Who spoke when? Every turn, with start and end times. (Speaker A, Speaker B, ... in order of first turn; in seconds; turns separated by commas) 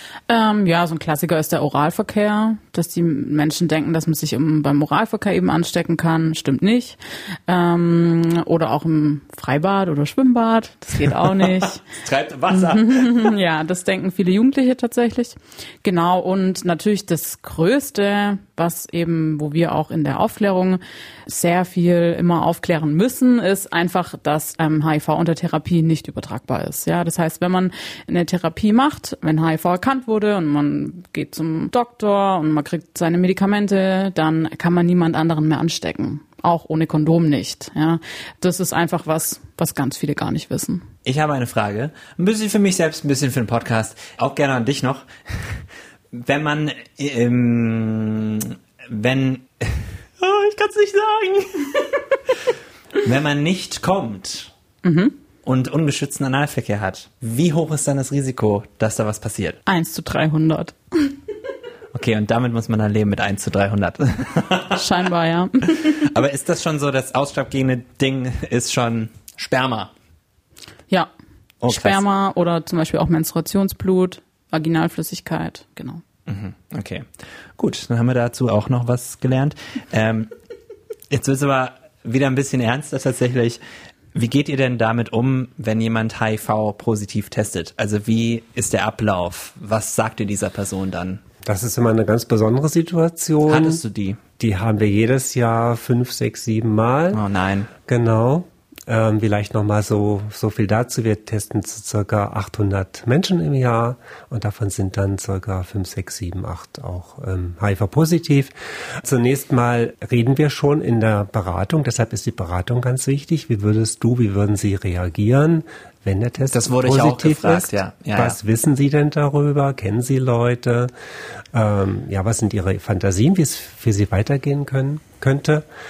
Speaker A: 0.3-11.8, Speaker B: 11.4-13.3, Speaker A: 12.5-40.9, Speaker B: 41.0-51.8, Speaker B: 53.0-54.5, Speaker A: 54.8-55.1, Speaker B: 55.4-59.6, Speaker A: 59.7-61.1, Speaker B: 61.9-64.8, Speaker A: 64.7-66.1, Speaker B: 65.8-69.9, Speaker B: 71.6-72.0, Speaker A: 71.7-76.0, Speaker B: 76.3-77.1, Speaker B: 77.6-80.3, Speaker B: 81.1-83.6, Speaker B: 84.1-91.2, Speaker C: 91.4-93.8, Speaker B: 93.5-94.2, Speaker C: 94.4-97.2, Speaker B: 97.1-97.7, Speaker C: 97.9-120.9, Speaker B: 116.5-118.4, Speaker C: 121.5-125.7